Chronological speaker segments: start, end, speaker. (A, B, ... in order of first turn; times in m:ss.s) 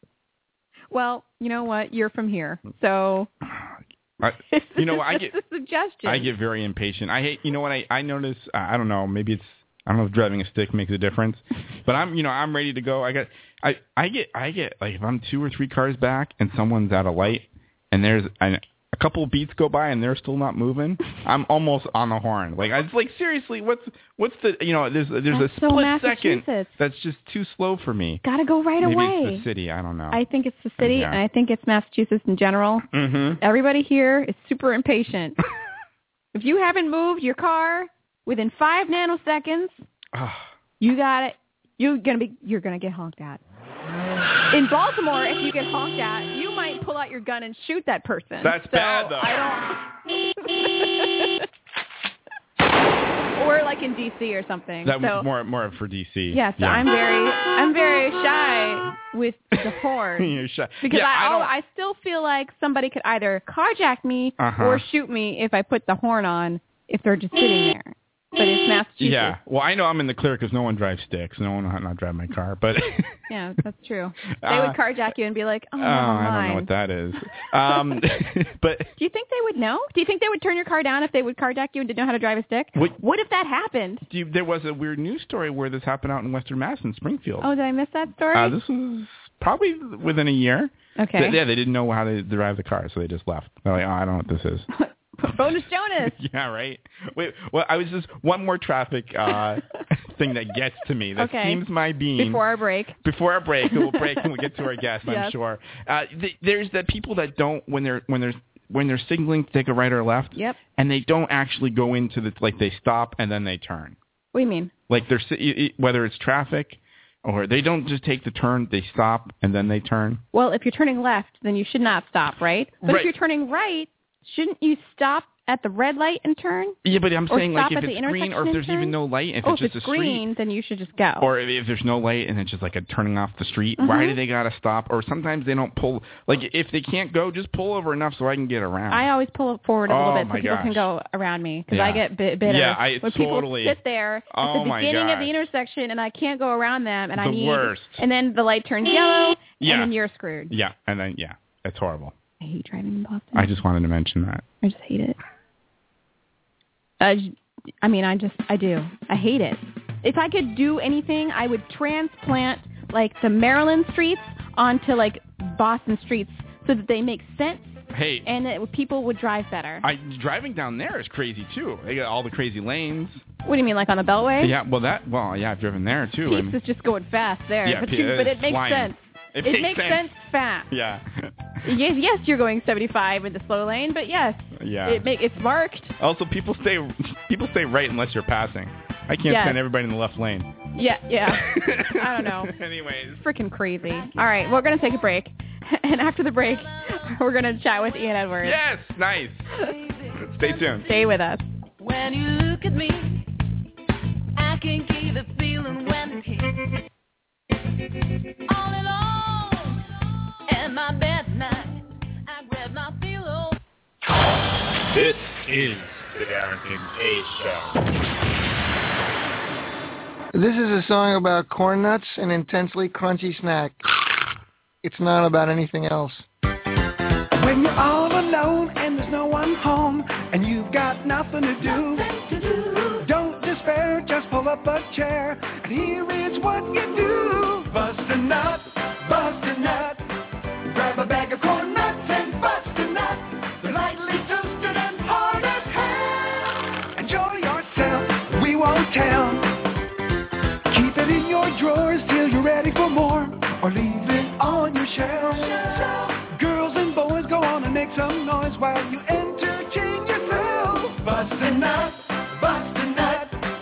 0:00.9-0:03.3 A
0:03.4-0:05.3 B
0:04.5-0:06.3 A
0:06.0-0:28.2 B
0:25.3-0:26.7 A
0:28.2-0:29.5 A
0:28.8-0:30.2 B
0:30.1-0:32.9 A
0:30.8-0:31.2 B
0:32.9-0:33.4 B
0:33.4-0:35.4 A
0:36.3-0:39.8 A
0:40.1-0:40.5 B
0:40.8-0:43.4 A
0:44.5-0:49.8 A
0:48.4-0:49.5 B
0:50.4-0:51.5 A
0:53.4-0:55.3 A
0:54.8-0:56.9 B
0:56.3-1:09.4 A
1:00.2-1:01.5 B
1:04.4-1:04.9 B
1:09.0-1:13.2 B
1:13.3-1:16.7 A
1:14.4-1:14.8 B
1:15.8-1:18.9 B
1:19.0-1:24.0 A
1:24.1-1:27.5 B
1:27.4-1:28.6 A
1:28.3-1:34.7 B
1:31.0-1:31.4 A
1:34.7-1:36.2 A
1:36.0-1:42.4 B
1:41.2-1:41.6 A
1:42.2-1:43.0 A
1:43.0-1:54.0 B
1:43.7-1:44.2 A
1:45.0-1:45.4 A
1:54.3-1:54.7 A
1:54.9-2:00.2 B
2:00.3-2:06.8 A
2:02.8-2:03.1 B
2:06.8-2:10.2 B
2:07.3-2:11.3 A
2:11.2-2:19.1 B
2:13.8-2:14.2 A
2:18.9-2:30.5 A
2:19.9-2:20.8 B
2:21.7-2:23.8 B
2:24.3-2:25.3 B
2:27.2-2:28.0 B
2:29.6-2:29.9 B
2:30.5-2:32.1 B
2:32.4-2:33.6 A
2:33.3-2:34.4 B
2:34.6-2:35.2 A
2:37.0-2:49.9 A
2:47.9-2:48.3 B
2:49.8-2:53.2 B
2:53.4-2:54.6 A
2:54.4-2:56.6 B
2:56.3-3:00.7 A
2:57.6-3:00.1 B
3:00.7-3:01.3 B
3:01.6-3:06.0 A
3:04.6-3:05.0 B
3:06.0-3:10.5 B
3:09.3-3:09.6 A
3:10.8-3:12.5 A
3:11.3-3:13.2 B
3:13.2-3:18.6 A
3:18.4-3:19.5 B
3:19.9-3:20.8 C
3:20.2-3:20.9 B
3:20.8-3:21.4 A
3:21.8-3:23.3 C
3:24.4-3:26.6 C
3:28.5-3:29.8 C
3:30.5-3:33.6 C
3:34.9-3:37.8 D
3:40.3-3:43.8 E
3:44.8-3:46.2 E
3:47.4-4:00.0 F
3:52.3-3:52.6 C
4:00.7-4:09.5 F
4:10.7-4:23.4 F